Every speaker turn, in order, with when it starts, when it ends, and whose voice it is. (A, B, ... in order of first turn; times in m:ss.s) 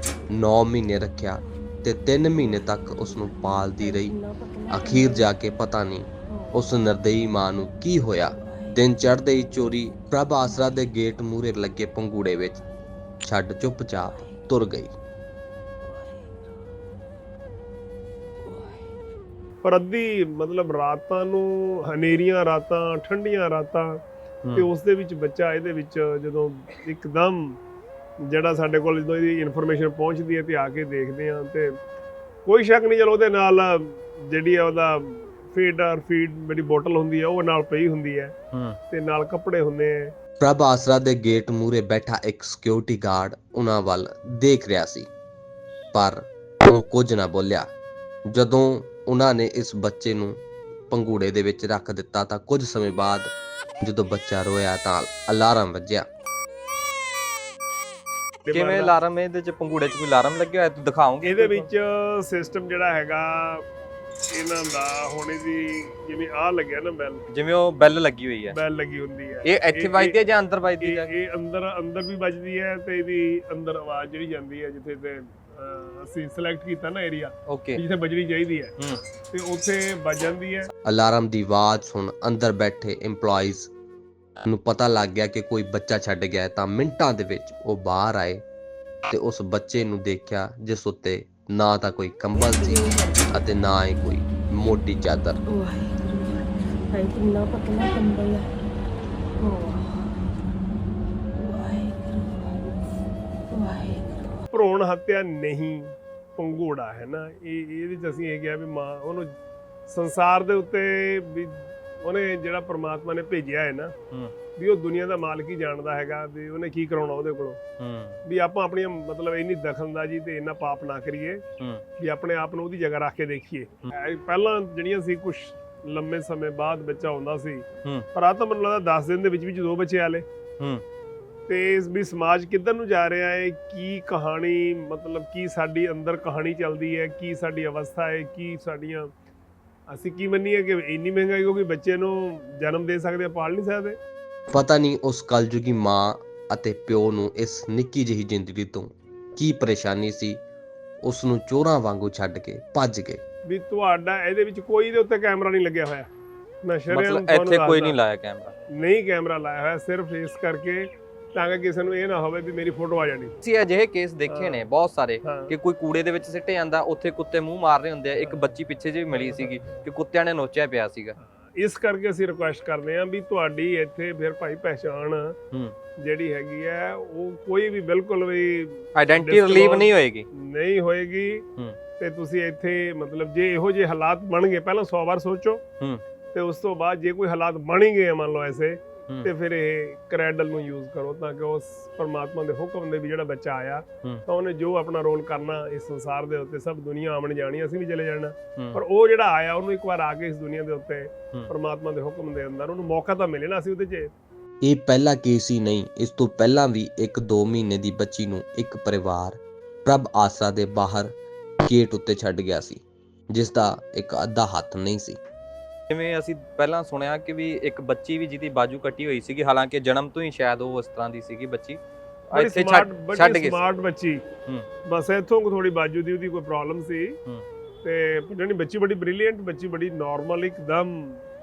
0:00.3-0:04.1 A
0:02.4-0:05.3 B
0:04.7-0:12.6 A
0:06.3-0:06.6 B
0:08.4-0:08.8 B
0:13.2-0:14.9 A
0:15.9-0:16.2 B
0:19.6-0:24.0 C
0:24.4-0:24.7 D
0:24.6-0:27.6 C
0:28.2-0:31.8 C
0:32.4-0:38.3 C
0:38.5-0:38.8 D
0:38.9-0:40.1 C
0:40.4-0:45.1 A
0:45.9-0:47.7 A
0:48.3-0:53.3 A
0:53.8-0:56.1 A
0:58.4-0:58.9 C
0:58.5-1:01.7 D
1:01.2-1:03.6 C
1:04.3-1:07.2 C
1:07.3-1:08.6 D
1:08.5-1:10.2 C
1:09.4-1:11.1 D
1:10.8-1:18.7 C
1:17.5-1:17.8 D
1:19.3-1:20.7 C
1:20.8-1:23.7 A
1:24.4-1:28.4 A
1:29.1-1:35.4 A
1:32.4-1:33.6 B
1:35.5-1:38.6 B
1:39.4-1:40.3 B
1:41.4-1:42.8 B
1:43.5-1:44.4 B
1:44.5-1:49.3 C
1:49.9-1:53.9 C
1:54.6-1:57.6 C
1:57.8-1:58.2 D
1:58.2-2:01.4 C
2:01.6-2:01.8 D
2:02.0-2:10.2 C
2:11.5-2:19.1 C
2:19.9-2:24.0 C
2:24.5-2:30.4 A
2:31.0-2:33.2 A
2:33.4-2:36.1 C
2:36.6-2:38.0 C
2:36.9-2:38.6 D
2:38.7-2:43.3 C
2:43.4-2:51.2 D
2:44.3-2:44.6 C
2:45.2-2:45.5 C
2:49.1-2:49.8 C
2:51.2-2:55.4 C
2:56.0-3:01.4 C
2:58.9-3:00.3 D
3:02.0-3:05.6 C
3:06.3-3:24.1 C
3:24.6-3:35.2 A
3:35.9-3:41.8 D
3:42.3-3:43.6 D
3:42.3-3:44.2 C
3:44.8-3:47.2 C
3:47.8-3:51.2 C